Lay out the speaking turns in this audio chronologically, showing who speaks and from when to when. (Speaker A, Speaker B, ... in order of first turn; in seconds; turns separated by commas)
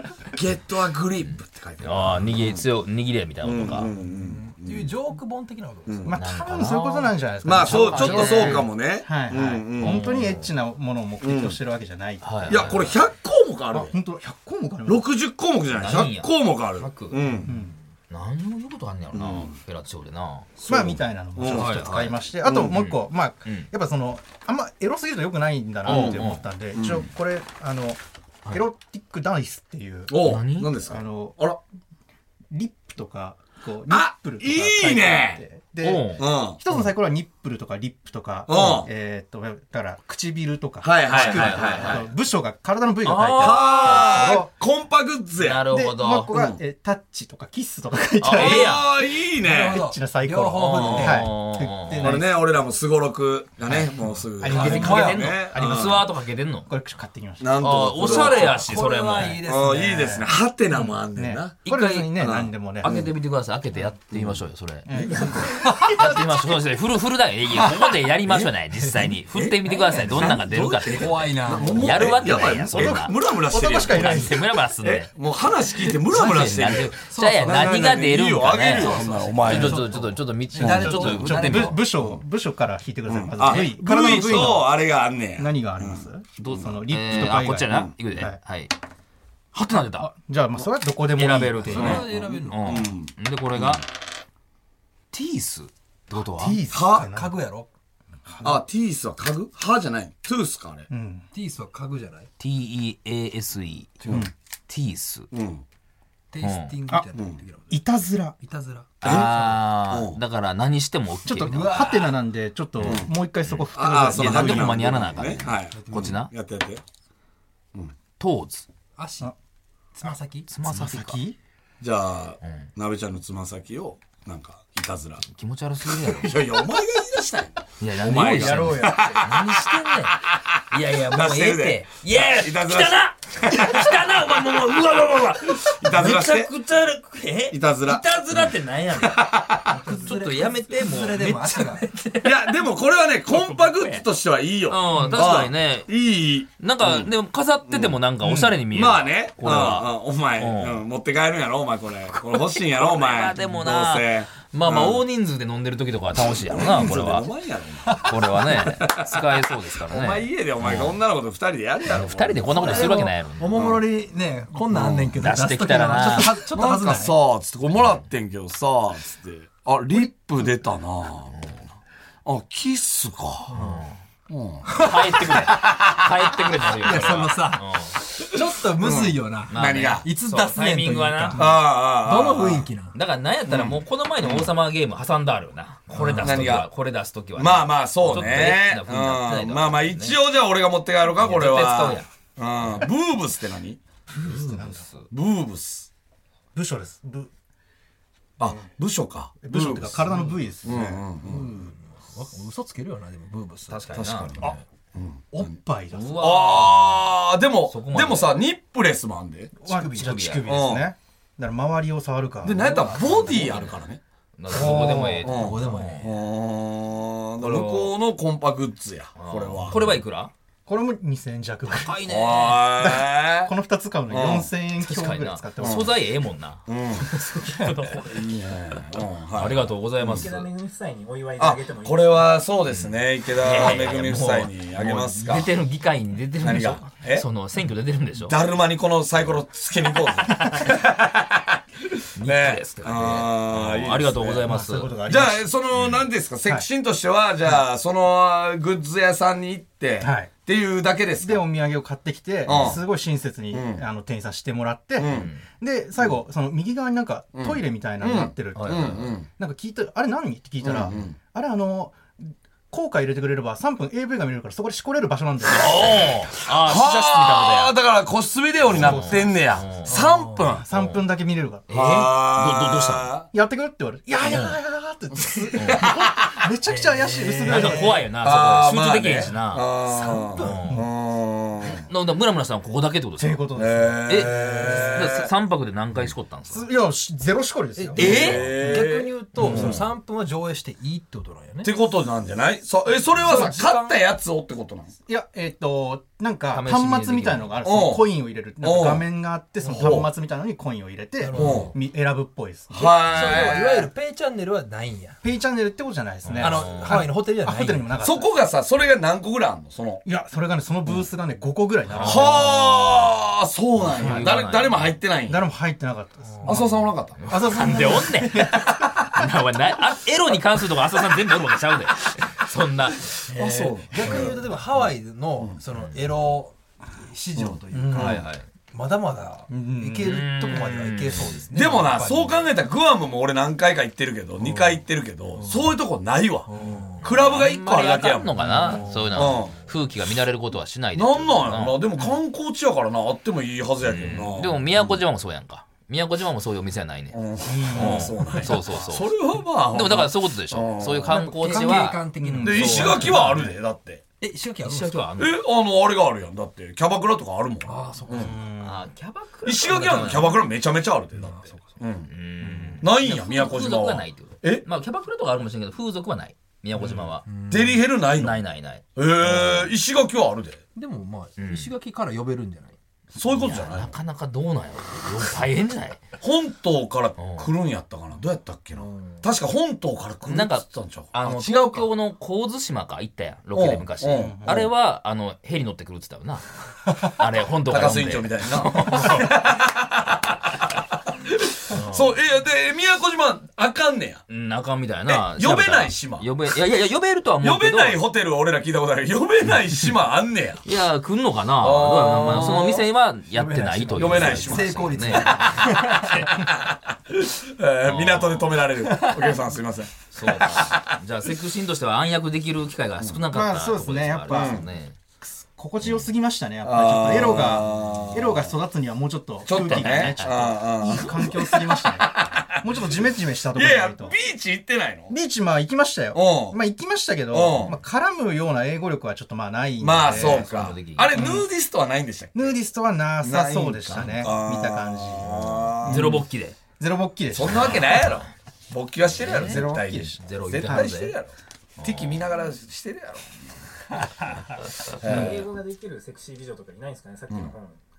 Speaker A: 0.3-2.6, Speaker B: 1.8-3.9, Speaker A: 3.4-4.9, Speaker C: 4.1-6.1, Speaker A: 5.8-6.2, Speaker D: 6.0-12.8, Speaker B: 6.2-8.7, Speaker A: 7.4-10.2, Speaker B: 9.8-10.5, Speaker A: 11.2-11.6, Speaker B: 12.2-13.0, Speaker A: 12.5-13.9, Speaker D: 13.7-15.1, Speaker A: 14.8-17.5, Speaker B: 15.7-20.5, Speaker D: 17.5-17.8, Speaker A: 19.1-19.5, Speaker A: 20.6-21.8, Speaker D: 20.6-30.3, Speaker B: 21.5-22.2, Speaker A: 22.4-22.8, Speaker B: 22.7-23.7, Speaker B: 25.8-26.4, Speaker A: 25.8-27.1, Speaker A: 30.1-31.6, Speaker B: 30.2-30.7, Speaker D: 30.9-31.5, Speaker D: 32.5-44.5, Speaker A: 33.9-35.4, Speaker B: 35.8-36.9, Speaker A: 36.2-36.6, Speaker A: 38.5-38.9, Speaker A: 40.8-42.1, Speaker B: 41.1-42.1, Speaker B: 43.0-44.4, Speaker A: 43.4-45.6, Speaker B: 45.4-46.3, Speaker D: 45.7-48.8, Speaker A: 46.3-46.6, Speaker B: 48.2-48.9, Speaker A: 48.3-49.8, Speaker C: 49.4-51.3, Speaker D: 49.6-52.4, Speaker B: 50.7-52.2, Speaker A: 50.8-51.1, Speaker A: 52.0-56.0, Speaker D: 53.6-56.1, Speaker B: 54.4-56.7, Speaker D: 56.6-58.4, Speaker A: 57.4-58.8, Speaker B: 57.6-59.4, Speaker C: 58.0-60.0, Speaker A: 59.4-63.1, Speaker D: 59.6-63.0, Speaker B: 61.6-62.1, Speaker B: 62.8-65.2, Speaker A: 64.1-64.4, Speaker D: 64.9-66.2, Speaker A: 64.9-66.1, Speaker B: 65.8-73.2, Speaker A: 67.5-68.5, Speaker A: 69.0-80.0, Speaker C: 69.7-72.2, Speaker D: 72.7-74.5, Speaker B: 73.7-75.1, Speaker B: 76.1-81.8, Speaker C: 76.1-77.8, Speaker C: 78.7-81.8, Speaker D: 80.5-84.8, Speaker A: 80.8-82.2, Speaker A: 83.1-86.0, Speaker B: 83.4-84.6, Speaker D: 85.4-88.4, Speaker B: 86.4-88.7, Speaker B: 89.5-90.1, Speaker D: 89.7-92.0, Speaker B: 91.2-93.8, Speaker C: 91.7-92.8, Speaker A: 91.7-93.8, Speaker B: 95.1-96.6, Speaker D: 96.1-97.3, Speaker A: 96.7-97.1, Speaker C: 96.9-97.7, Speaker D: 98.2-98.6, Speaker A: 98.4-100.9, Speaker D: 100.9-101.2, Speaker C: 101.3-102.3, Speaker B: 102.4-104.0, Speaker A: 104.0-104.3, Speaker B: 104.7-105.3, Speaker A: 105.3-105.6, Speaker C: 106.3-107.8, Speaker B: 106.4-106.7, Speaker D: 107.7-108.4, Speaker C: 108.4-109.5, Speaker B: 109.0-112.0, Speaker D: 109.0-109.3, Speaker A: 109.0-109.4, Speaker A: 109.9-110.2, Speaker D: 111.2-115.0, Speaker C: 111.4-112.2, Speaker B: 112.8-116.3, Speaker A: 112.8-113.1, Speaker A: 113.7-116.8, Speaker C: 115.7-116.2, Speaker B: 118.2-118.7, Speaker C: 119.0-119.3, Speaker C: 120.0-120.5, Speaker B: 120.5-121.2, Speaker D: 120.6-121.4, Speaker A: 121.8-125.2, Speaker B: 122.4-122.7, Speaker B: 125.2-126.4, Speaker A: 125.8-134.8, Speaker B: 127.8-139.2, Speaker D: 128.0-129.2, Speaker A: 135.8-136.5, Speaker A: 137.5-139.8, Speaker C: 139.7-141.9, Speaker B: 139.9-142.6, Speaker A: 142.2-147.1, Speaker B: 143.3-144.0, Speaker B: 144.7-145.9, Speaker B: 146.6-150.8, Speaker A: 147.7-155.0, Speaker B: 152.7-157.3, Speaker A: 156.1-162.9, Speaker C: 157.8-158.7, Speaker B: 158.0-161.0, Speaker B: 161.9-163.6, Speaker C: 162.5-167.1, Speaker A: 163.5-163.8, Speaker A: 164.7-165.2, Speaker B: 165.2-166.3, Speaker D: 165.3-166.7, Speaker A: 166.5-171.3, Speaker A: 172.2-173.6, Speaker C: 173.5-173.8, Speaker B: 173.6-173.9, Speaker A: 174.3-176.1, Speaker C: 174.7-175.9, Speaker B: 174.8-177.9, Speaker C: 176.6-182.9, Speaker A: 176.8-177.3, Speaker A: 178.8-180.1, Speaker B: 179.5-181.4, Speaker A: 181.3-182.7, Speaker B: 182.9-190.2, Speaker A: 183.5-184.5, Speaker C: 185.9-186.6, Speaker A: 186.2-186.7, Speaker A: 187.3-193.8, Speaker B: 191.2-192.1, Speaker D: 194.1-194.9, Speaker B: 194.2-195.1, Speaker A: 195.1-195.9, Speaker D: 196.5-197.3, Speaker A: 198.4-200.1, Speaker D: 199.4-201.7, Speaker C: 200.1-200.3, Speaker A: 200.6-201.5, Speaker C: 201.3-204.6, Speaker B: 203.7-204.3, Speaker A: 203.9-205.5, Speaker D: 205.3-206.2, Speaker B: 205.9-207.1, Speaker A: 206.1-209.5, Speaker B: 207.7-208.4, Speaker D: 209.6-212.7, Speaker C: 209.7-210.2, Speaker B: 209.9-210.4, Speaker A: 210.4-210.8, Speaker A: 212.4-219.9, Speaker C: 212.6-213.4, Speaker B: 213.1-213.7, Speaker B: 214.4-216.1, Speaker C: 214.5-216.1, Speaker D: 214.6-215.1, Speaker B: 217.4-217.9, Speaker B: 219.2-220.3, Speaker D: 220.7-222.0, Speaker B: 221.7-222.7, Speaker A: 222.1-223.5, Speaker D: 222.7-225.9, Speaker A: 224.1-224.5, Speaker B: 224.8-228.8, Speaker A: 225.6-225.9, Speaker A: 226.7-227.2, Speaker A: 228.0-230.3, Speaker B: 229.3-230.5, Speaker E: 230.1-232.4, Speaker A: 231.4-235.5, Speaker B: 232.7-238.3, Speaker A: 236.4-237.2, Speaker A: 238.2-244.4, Speaker B: 242.2-245.0, Speaker D: 244.4-245.5, Speaker A: 245.1-251.4, Speaker B: 245.8-246.1, Speaker D: 250.0-250.3, Speaker D: 251.2-266.1, Speaker A: 252.4-252.8, Speaker B: 252.5-252.8, Speaker A: 253.5-253.8, Speaker A: 255.0-255.3, Speaker B: 255.1-255.4, Speaker A: 257.4-259.3, Speaker B: 258.5-259.1, Speaker A: 260.6-261.1, Speaker A: 265.5-270.6, Speaker B: 265.5-267.8, Speaker D: 268.7-269.5, Speaker B: 268.7-269.9, Speaker C: 269.9-270.5, Speaker D: 270.4-271.6, Speaker B: 270.7-271.0, Speaker B: 271.7-273.1, Speaker A: 271.7-273.3, Speaker D: 273.3-278.0, Speaker B: 274.2-274.6, Speaker A: 275.1-276.4, Speaker B: 275.5-275.8, Speaker C: 276.6-277.9, Speaker B: 277.5-279.7, Speaker A: 278.2-281.9, Speaker C: 279.9-280.7, Speaker B: 280.4-280.8, Speaker B: 281.9-283.4, Speaker D: 283.2-285.0, Speaker A: 283.5-285.3, Speaker B: 284.1-284.3, Speaker B: 284.9-286.6, Speaker D: 286.5-288.8, Speaker C: 287.8-291.7, Speaker A: 287.9-289.9, Speaker B: 288.0-288.4, Speaker B: 289.4-289.8, Speaker A: 291.6-294.9, Speaker C: 293.2-294.0, Speaker D: 295.1-303.0, Speaker B: 296.5-297.6, Speaker A: 297.6-298.1, Speaker A: 298.6-299.1, Speaker C: 299.6-300.0, Speaker A: 299.7-300.1, Speaker C: 301.2-301.7, Speaker A: 301.3-301.7, Speaker A: 302.7-303.9, Speaker C: 303.1-305.2, Speaker D: 305.2-308.3, Speaker B: 306.2-307.1, Speaker C: 306.4-307.9, Speaker A: 308.0-310.0, Speaker D: 310.0-313.1, Speaker B: 311.9-312.5, Speaker A: 312.0-315.4, Speaker B: 313.8-315.0, Speaker D: 315.3-319.1, Speaker C: 316.3-316.6, Speaker A: 316.4-317.9, Speaker B: 317.2-323.2, Speaker A: 323.3-324.4, Speaker C: 323.3-332.5, Speaker D: 324.0-324.3, Speaker A: 327.4-328.2, Speaker D: 327.7-328.2, Speaker B: 327.9-328.4, Speaker D: 329.5-330.6, Speaker B: 330.0-331.4, Speaker A: 331.5-339.6, Speaker C: 334.4-334.8, Speaker C: 335.3-335.7, Speaker C: 336.5-337.0, Speaker B: 337.0-341.8, Speaker C: 338.4-339.5, Speaker D: 338.6-339.0, Speaker A: 340.9-345.0, Speaker B: 343.8-347.2, Speaker A: 347.1-351.2, Speaker D: 347.4-348.9, Speaker B: 347.7-349.1, Speaker C: 348.2-348.5, Speaker B: 349.7-352.9, Speaker C: 351.0-353.6, Speaker D: 351.5-353.5, Speaker A: 352.4-354.0, Speaker C: 354.2-355.0, Speaker B: 354.6-355.4, Speaker A: 355.2-358.3, Speaker C: 357.6-358.6, Speaker D: 358.2-358.8, Speaker B: 358.6-360.4, Speaker A: 359.4-362.1, Speaker C: 359.7-360.4, Speaker C: 361.1-361.7, Speaker B: 362.1-367.2, Speaker D: 362.4-362.9, Speaker A: 362.8-364.6, Speaker C: 366.8-367.8, Speaker A: 367.5-368.4, Speaker B: 368.2-369.7, Speaker A: 368.9-370.6, Speaker C: 370.8-372.8, Speaker B: 371.4-371.7, Speaker A: 373.1-373.9, Speaker B: 373.3-376.0, Speaker A: 376.2-381.9, Speaker B: 377.2-377.5, Speaker C: 378.7-379.2, Speaker B: 380.2-389.3, Speaker A: 383.5-384.7, Speaker D: 384.1-384.7, Speaker A: 387.6-394.2, Speaker B: 391.7-392.2, Speaker B: 394.3-398.0, Speaker A: 395.1-396.3, Speaker A: 397.4-400.6, Speaker B: 400.6-406.2, Speaker A: 401.6-402.9, Speaker C: 403.4-406.4, Speaker D: 403.4-404.2, Speaker A: 403.9-411.0, Speaker B: 407.8-408.5, Speaker B: 410.1-414.9, Speaker D: 413.3-414.7, Speaker A: 414.3-414.6, Speaker D: 415.2-424.1, Speaker A: 416.6-418.6, Speaker B: 417.7-418.1, Speaker A: 419.4-425.1, Speaker B: 419.5-420.4, Speaker D: 425.1-430.5, Speaker A: 426.1-426.6, Speaker A: 427.3-427.8, Speaker A: 429.8-432.6, Speaker B: 430.1-431.2, Speaker D: 431.1-431.4, Speaker D: 432.3-436.2, Speaker A: 433.2-436.2, Speaker B: 433.9-434.3, Speaker B: 435.8-436.6, Speaker D: 436.8-438.1, Speaker A: 437.3-443.2, Speaker B: 437.4-438.2, Speaker B: 439.2-439.6, Speaker D: 439.2-440.9, Speaker B: 440.2-441.2, Speaker B: 441.8-442.2, Speaker A: 445.0-445.4, Speaker E: 445.0-447.8, Speaker D: 445.1-445.4